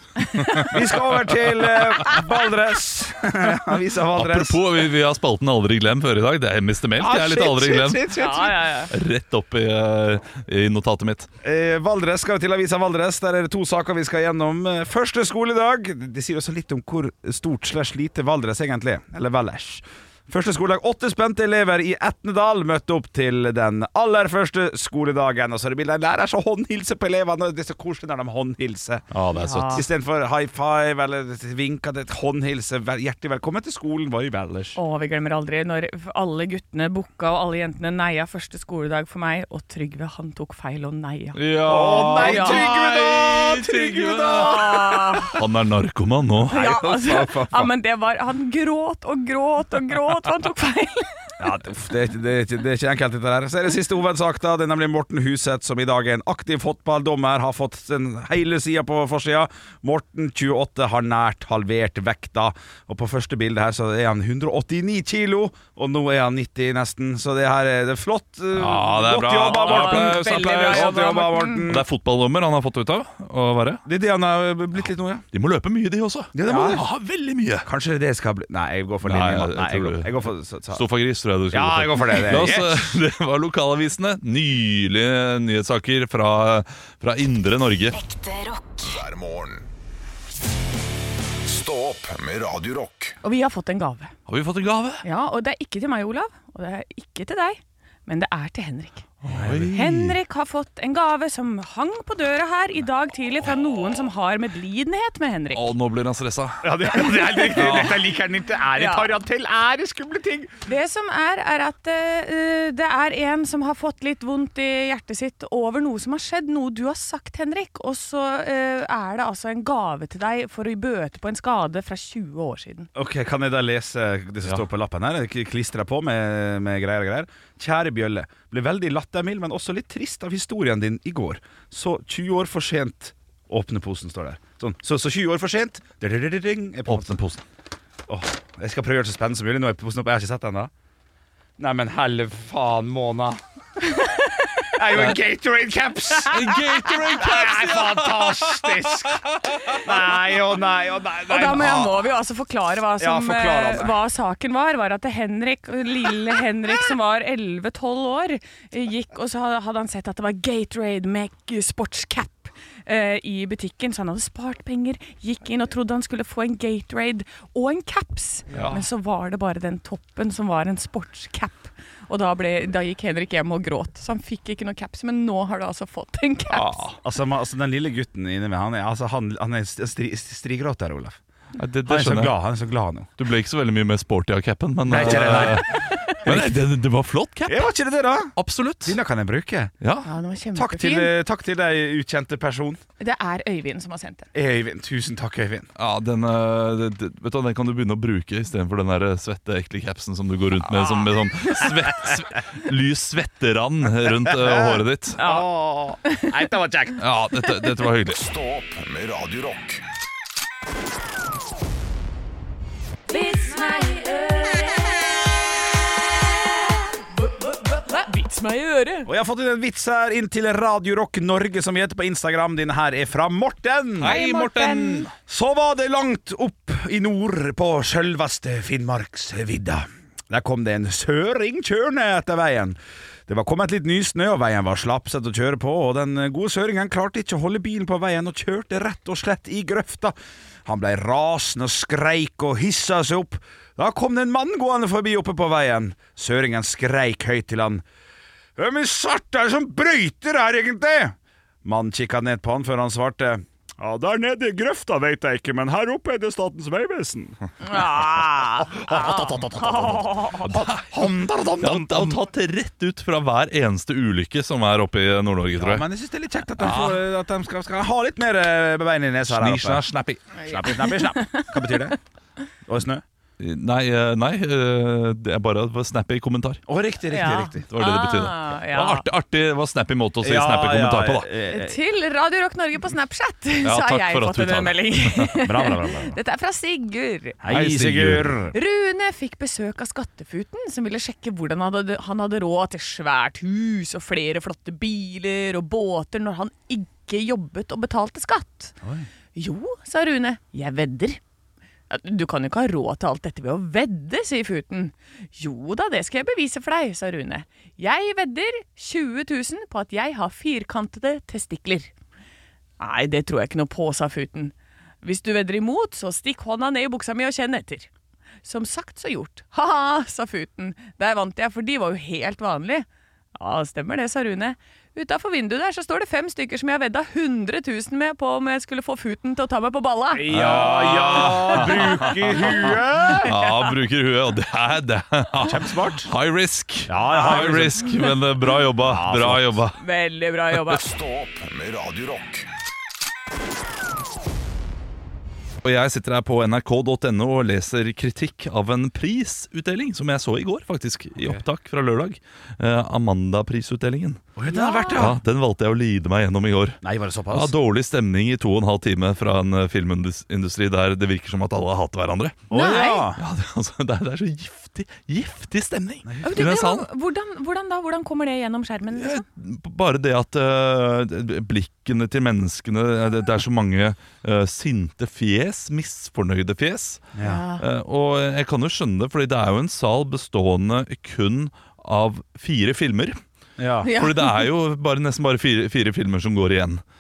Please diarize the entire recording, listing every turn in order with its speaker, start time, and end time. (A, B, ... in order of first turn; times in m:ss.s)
0:00.3-0:00.7 A
0:00.4-0:04.6 B
0:04.2-0:08.2 C
0:07.0-0:08.6 B
0:08.2-0:08.9 A
0:08.9-0:11.3 C
0:11.4-0:34.8 B
0:29.1-0:29.8 C
0:29.3-0:29.8 A
0:34.8-0:42.7 A
0:41.4-0:46.6 C
0:41.6-0:45.3 B
0:44.3-0:45.4 A
0:46.5-0:47.7 B
0:46.5-0:51.3 A
0:51.4-1:11.8 B
1:08.5-1:13.8 C
1:09.5-1:11.7 A
1:13.8-1:15.2 B
1:15.3-1:17.7 C
1:16.3-1:16.8 B
1:17.6-1:20.8 B
1:19.0-1:28.0 C
1:21.5-1:22.9 B
1:28.1-1:29.7 D
1:31.4-1:33.2 D
1:33.2-1:34.1 A
1:34.3-1:35.0 C
1:35.0-1:45.7 A
1:39.2-1:40.2 C
1:39.3-1:39.7 B
1:45.5-1:46.7 C
1:46.6-1:50.6 B
1:47.4-1:48.0 C
1:48.8-1:49.1 A
1:50.6-2:02.9 A
2:03.0-2:17.2 B
2:16.9-2:17.4 C
2:18.1-2:20.7 B
2:21.6-2:23.4 B
2:23.8-2:24.7 A
2:24.7-2:32.1 B
2:26.2-2:29.8 C
2:31.3-2:56.8 A
2:33.0-2:34.0 B
2:48.5-2:48.8 C
2:56.5-2:57.0 C
2:57.0-3:01.2 B
3:01.6-3:02.4 C
3:01.9-3:03.1 B
3:03.2-3:07.7 C
3:04.9-3:06.6 B
3:05.7-3:06.2 A
3:07.5-3:09.7 B
3:08.4-3:09.0 C
3:09.8-3:10.1 C
3:10.0-3:11.1 A
3:10.6-3:12.8 B
3:13.0-3:14.3 A
3:14.3-3:15.7 B
3:15.8-3:25.2 C
3:20.8-3:21.1 B
3:21.6-3:22.2 B
3:24.0-3:27.0 B
3:25.2-3:25.5 A
3:26.0-3:26.3 A
3:27.0-3:28.2 C
3:28.1-3:29.8 D
3:33.1-3:35.0 A
3:37.2-3:39.1 A
3:39.1-3:44.2 B
3:44.0-3:45.1 C
3:44.0-3:45.1 A
3:45.2-4:07.8 B
4:08.6-4:17.4 B
4:17.6-4:20.5 A
4:18.6-4:22.2 B
4:20.4-4:21.0 C
4:21.6-4:25.8 C
4:25.6-4:29.8 B
4:26.6-4:27.0 C
4:29.3-4:30.3 C
4:30.4-4:31.5 A
4:30.4-4:32.0 B
4:32.6-4:33.0 B
4:33.4-4:36.6 C
4:36.7-4:37.7 B
4:37.1-4:39.0 A
4:37.7-4:41.3 C
4:40.2-4:41.8 B
4:41.5-4:47.4 A
4:43.6-4:45.3 C
4:45.4-4:46.2 B
4:47.4-4:48.5 B
4:47.5-4:48.4 C
4:48.5-4:58.8 A
4:58.8-4:59.1 B
4:59.4-5:01.2 A
5:01.9-5:11.9 A
5:12.8-5:17.9 A
5:18.4-5:30.4 A
5:30.1-5:33.3 B
5:30.3-5:39.8 C
5:33.1-5:33.7 A
5:35.4-5:36.1 B
5:36.9-5:38.0 B
5:38.8-5:39.6 B
5:39.8-5:40.8 A
5:40.6-5:42.5 D
5:45.6-5:54.3 C
5:54.4-5:55.2 B
5:54.5-5:55.1 A
5:55.0-6:02.4 C
5:56.8-5:57.5 B
6:02.5-6:03.2 B
6:02.5-6:03.1 A
6:03.2-6:06.9 C
6:06.0-6:06.6 B
6:06.2-6:09.2 A
6:09.0-6:23.2 C
6:17.2-6:17.4 B
6:17.2-6:17.6 A
6:23.6-6:23.9 B
6:23.8-6:24.5 A
6:23.9-6:26.8 C